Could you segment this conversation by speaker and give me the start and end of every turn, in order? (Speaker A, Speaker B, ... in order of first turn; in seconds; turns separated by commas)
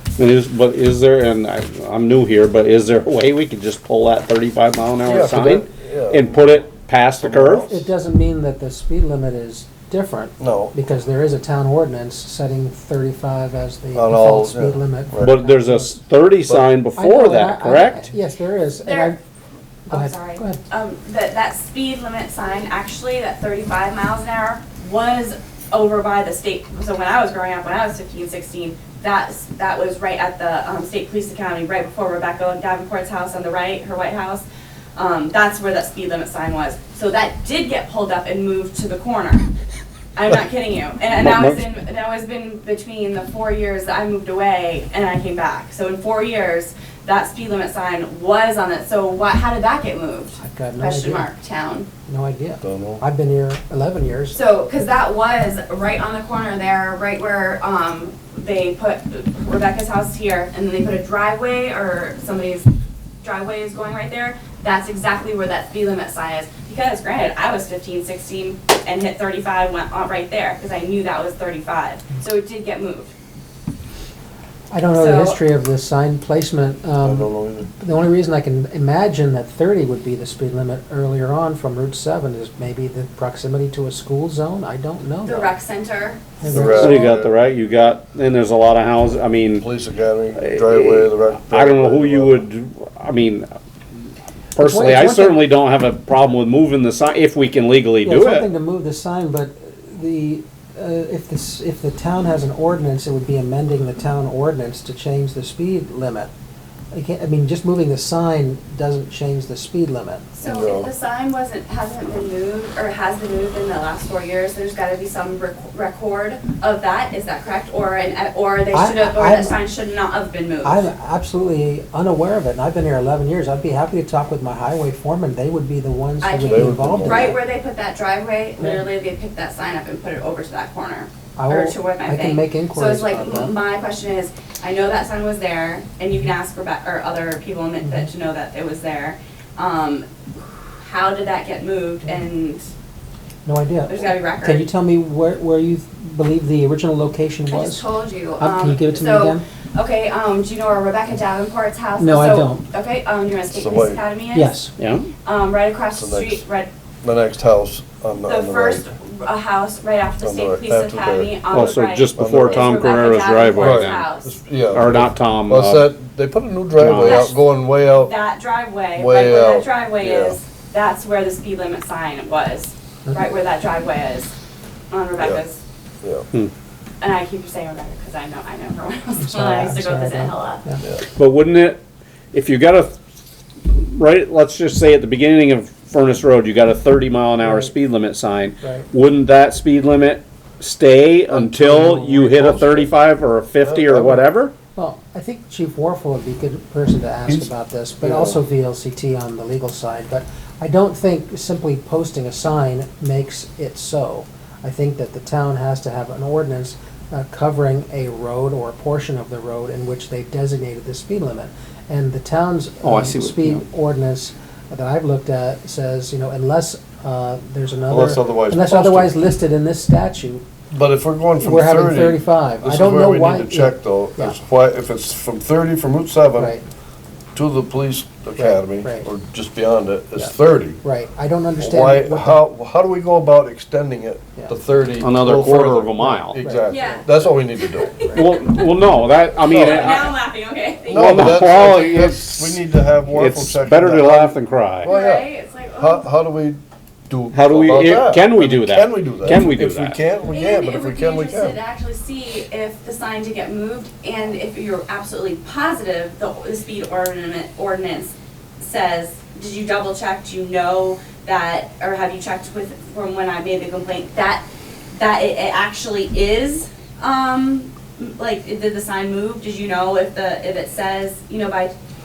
Speaker A: 0.2-7.7, Speaker B: 5.0-6.5, Speaker B: 7.2-7.8, Speaker C: 7.7-15.9, Speaker B: 10.4-10.7, Speaker B: 13.9-15.3, Speaker A: 15.2-18.1, Speaker C: 16.9-19.2, Speaker D: 18.8-19.1, Speaker C: 19.9-20.6, Speaker D: 19.9-34.4, Speaker D: 35.0-39.5, Speaker D: 40.1-51.9, Speaker A: 41.2-41.6, Speaker C: 50.4-51.3, Speaker C: 52.1-54.4, Speaker B: 52.6-53.0, Speaker D: 54.3-62.7, Speaker D: 63.2-73.1, Speaker C: 74.7-85.5, Speaker D: 74.9-75.4, Speaker B: 77.0-77.7, Speaker D: 85.2-86.3, Speaker C: 86.4-87.0, Speaker B: 86.5-87.3, Speaker A: 86.6-89.7, Speaker B: 89.6-92.4, Speaker A: 90.4-93.5, Speaker A: 94.5-98.4, Speaker C: 94.6-95.4, Speaker C: 98.0-106.3, Speaker C: 106.9-110.2, Speaker D: 110.3-120.9, Speaker B: 110.4-110.9, Speaker C: 118.7-119.6, Speaker C: 120.6-127.4, Speaker D: 126.2-140.1, Speaker B: 126.4-127.3, Speaker C: 131.3-133.5, Speaker C: 137.8-138.1, Speaker D: 140.8-142.6, Speaker C: 143.4-147.8, Speaker D: 143.9-144.6, Speaker D: 147.5-154.6, Speaker C: 148.4-149.4, Speaker C: 152.0-152.6, Speaker B: 153.5-154.0, Speaker C: 154.3-154.7, Speaker A: 154.8-155.1, Speaker D: 155.2-156.7, Speaker B: 155.9-156.4, Speaker B: 157.0-158.9, Speaker D: 158.2-164.4, Speaker B: 160.2-162.8, Speaker A: 161.5-164.0, Speaker B: 163.5-168.1, Speaker A: 164.7-165.9, Speaker A: 166.7-167.3, Speaker D: 167.0-167.4, Speaker D: 167.9-174.3, Speaker B: 168.9-170.4, Speaker D: 174.9-175.6, Speaker B: 175.2-175.4, Speaker D: 177.0-180.6, Speaker C: 179.2-180.8, Speaker A: 181.2-181.8, Speaker A: 182.3-183.0, Speaker A: 183.6-194.5, Speaker C: 187.4-187.7, Speaker C: 188.6-188.9, Speaker B: 191.3-192.9, Speaker B: 193.6-194.2, Speaker C: 194.8-220.4, Speaker B: 198.0-198.4, Speaker A: 212.8-213.6, Speaker B: 217.9-219.1, Speaker B: 220.7-226.5, Speaker C: 221.4-224.4, Speaker C: 226.4-226.6, Speaker B: 227.3-230.8, Speaker C: 228.4-229.1, Speaker C: 230.2-232.4, Speaker B: 231.6-237.9, Speaker A: 235.0-236.3, Speaker C: 236.3-237.0, Speaker D: 236.7-238.7, Speaker A: 238.1-240.1, Speaker D: 239.4-241.8, Speaker B: 239.4-240.1, Speaker A: 240.9-244.9, Speaker B: 240.9-251.6, Speaker D: 244.8-246.1, Speaker A: 247.3-250.0, Speaker D: 250.2-264.4, Speaker D: 264.9-271.7